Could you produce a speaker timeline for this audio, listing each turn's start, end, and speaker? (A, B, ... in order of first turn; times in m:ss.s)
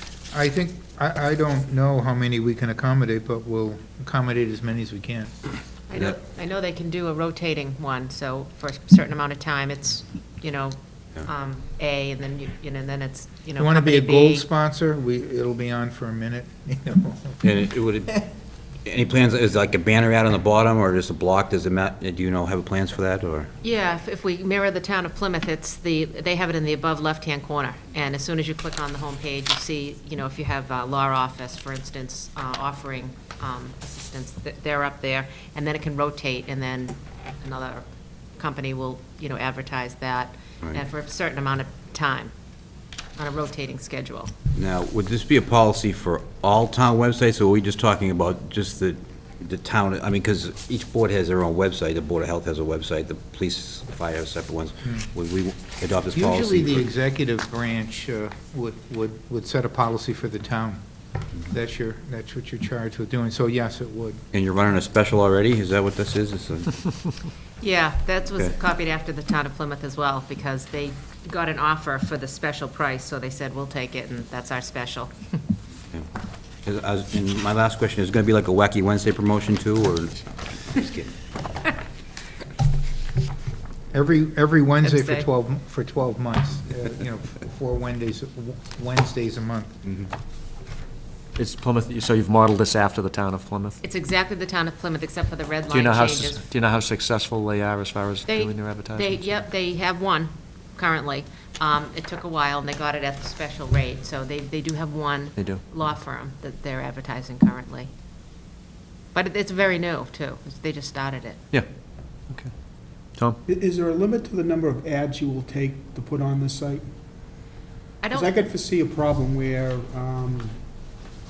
0:00.3-0:05.3 A
0:05.9-0:14.5 B
0:13.6-0:17.5 A
0:17.4-0:18.2 C
0:18.8-0:23.5 C
0:23.6-0:37.8 B
0:38.4-0:42.3 B
0:43.2-0:44.3 B
0:44.5-0:56.9 C
0:56.1-1:00.8 A
1:01.5-1:04.2 A
1:04.3-1:06.7 C
1:07.6-1:15.4 B
1:16.6-1:21.1 C
1:23.9-1:29.7 A
1:24.8-1:25.3 B
1:31.4-1:33.8 D
1:33.8-1:36.4 B
1:35.7-1:39.2 D
1:38.3-1:47.9 B
1:45.4-1:45.6 D
1:49.1-1:51.4 B
1:53.5-1:57.4 E
1:58.0-1:58.4 B
1:58.1-2:00.9 E